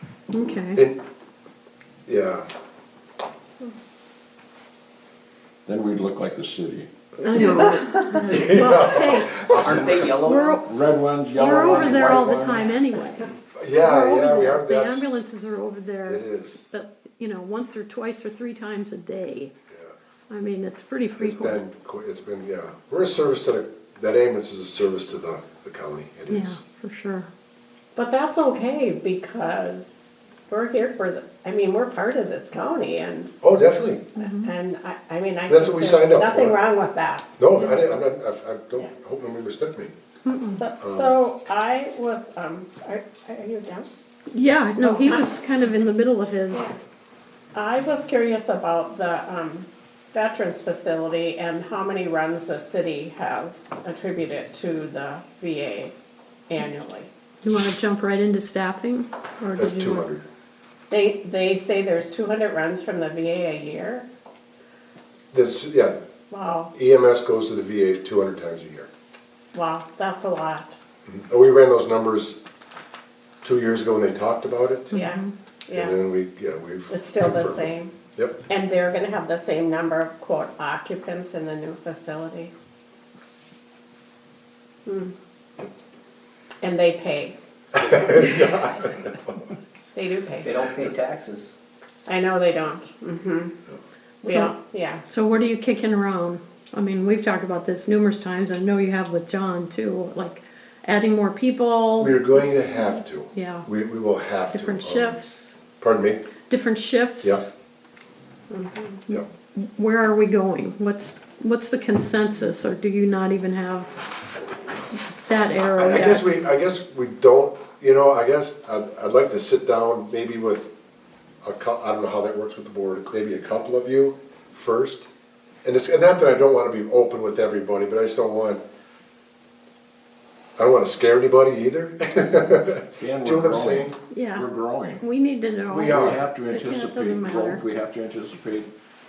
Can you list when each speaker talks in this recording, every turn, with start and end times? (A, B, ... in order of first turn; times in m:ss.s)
0:00.3-0:00.8 A
0:02.1-0:02.5 B
0:05.7-0:06.9 C
0:07.2-0:09.5 A
0:07.4-0:08.2 D
0:08.2-0:10.2 B
0:09.5-0:10.7 E
0:10.2-0:10.6 A
0:10.7-0:12.7 C
0:11.3-0:19.5 A
0:11.7-0:12.1 E
0:13.5-0:15.1 B
0:16.0-0:16.7 B
0:20.3-0:21.6 A
0:21.2-0:26.6 B
0:26.3-0:27.3 A
0:28.0-0:33.4 D
0:33.4-0:34.1 B
0:34.2-0:34.5 A
0:34.2-0:37.8 D
0:35.5-0:36.6 B
0:37.4-0:39.9 B
0:40.3-0:40.6 A
0:40.4-0:43.9 D
0:40.8-0:41.2 B
0:44.3-0:46.8 A
0:44.8-0:45.3 D
0:47.5-0:55.9 D
0:56.5-0:57.1 D
0:57.4-0:59.1 A
0:59.4-1:00.1 D
0:59.6-1:00.2 B
1:00.9-1:04.1 D
1:05.3-1:06.0 B
1:06.3-1:06.7 D
1:06.7-1:08.9 B
1:09.5-1:10.8 D
1:11.1-1:12.4 B
1:13.4-1:15.0 B
1:14.9-1:15.3 A
1:14.9-1:16.0 D
1:15.7-1:18.4 B
1:16.9-1:17.9 D
1:18.5-1:22.5 D
1:24.9-1:25.1 D
1:26.6-1:27.4 D
1:27.7-1:29.4 B
1:29.9-1:30.6 D
1:30.4-1:31.6 E
1:32.1-1:33.6 D
1:34.2-1:35.0 D
1:34.3-1:34.5 A
1:35.1-1:42.8 A
1:42.0-1:45.2 B
1:43.3-1:43.7 A
1:44.5-1:45.6 A
1:45.8-1:46.3 B
1:46.5-1:47.4 A
1:48.5-1:49.0 D
1:49.1-1:53.9 A
1:55.2-1:56.3 A
1:55.6-2:00.6 B
2:01.4-2:05.1 B
2:05.6-2:08.6 B
2:10.6-2:14.0 B
2:13.0-2:15.0 C
2:14.1-2:14.5 A
2:15.0-2:17.6 A
2:15.7-2:16.2 B
2:16.0-2:18.7 C